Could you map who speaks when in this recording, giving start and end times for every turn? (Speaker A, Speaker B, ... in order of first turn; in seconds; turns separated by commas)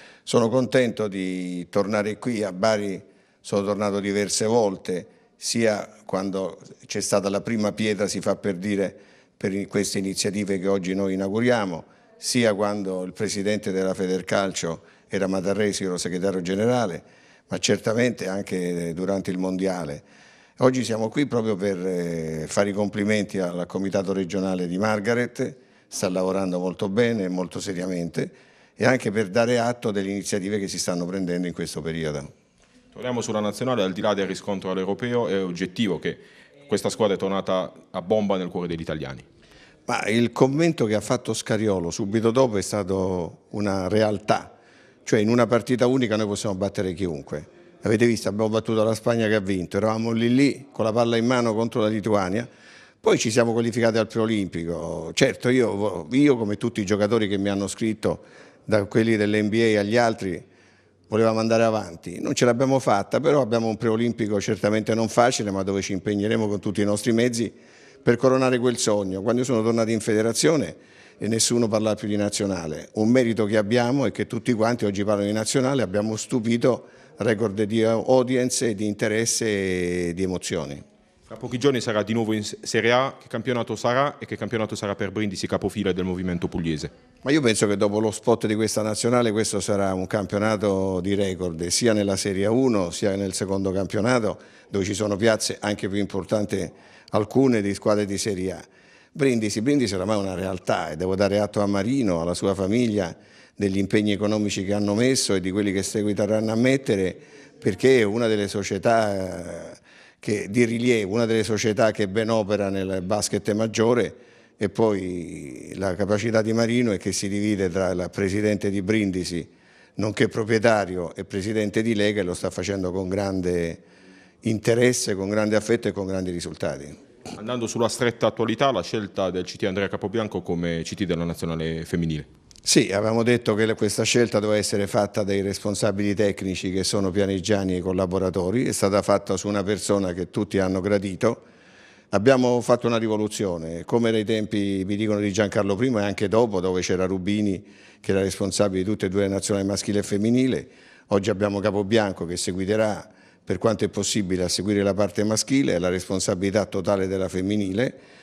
Speaker A: 0.2-20.0, Speaker A: 20.6-32.3, Speaker B: 32.9-39.2, Speaker A: 39.9-44.5, Speaker A: 45.0-52.5, Speaker A: 53.0-60.4, Speaker A: 61.1-80.8, Speaker B: 81.3-86.9, Speaker A: 87.2-123.8, Speaker A: 124.4-127.0, Speaker B: 127.3-132.3, Speaker A: 132.6-141.4, Speaker A: 142.1-158.0